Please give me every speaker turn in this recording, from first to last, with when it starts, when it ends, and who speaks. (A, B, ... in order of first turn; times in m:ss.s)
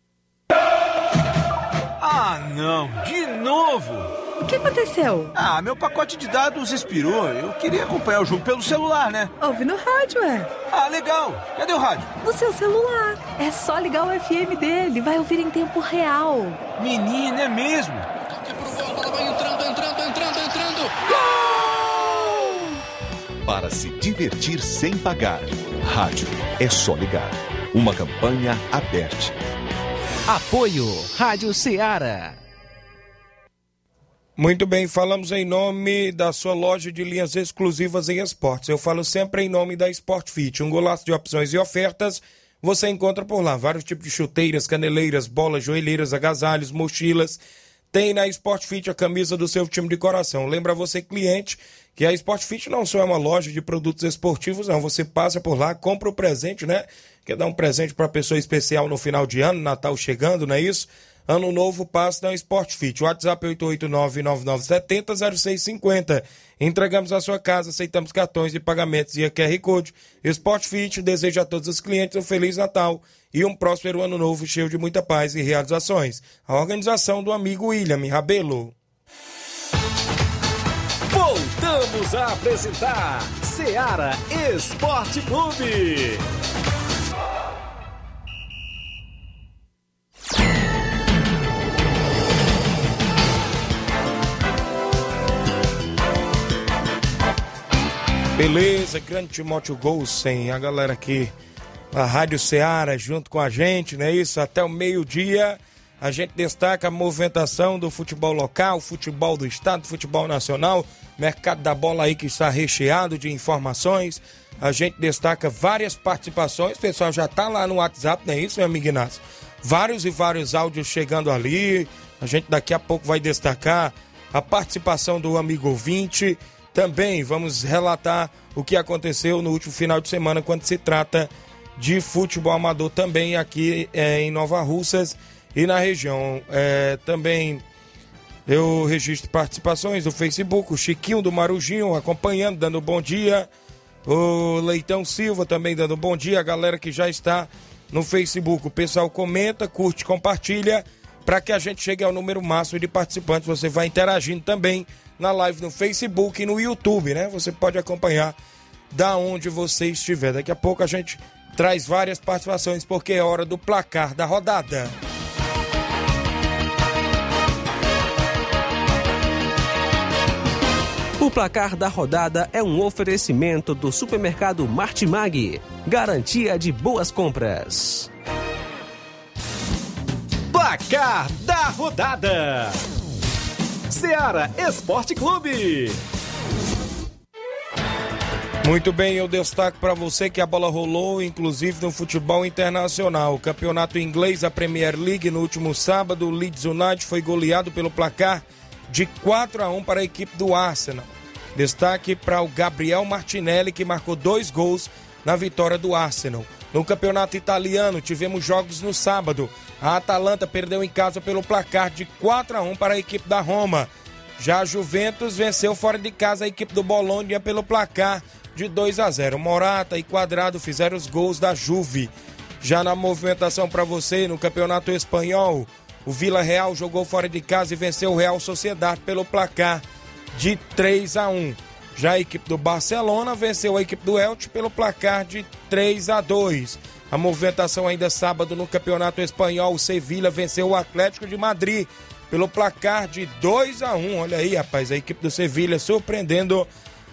0:02.0-0:04.1 A
0:04.4-0:05.3 B
0:05.3-0:09.3 A
0:09.4-0:10.6 B
0:10.7-0:12.1 A
0:12.2-0:16.6 B
0:16.8-0:18.0 A
0:18.2-0:21.1 C
0:23.4-0:29.4 D
0:30.3-0:32.4 E
0:34.4-0:47.4 F
0:47.9-1:18.7 F
1:21.1-1:26.2 G
1:38.4-1:41.3 F
1:41.9-2:17.6 F
2:18.5-2:23.5 F
2:24.0-2:38.3 F
2:38.9-2:44.9 F
2:51.2-2:58.1 E
3:00.5-3:02.8 G
3:03.9-3:06.0 G
3:08.6-3:49.8 F
3:50.3-4:06.7 F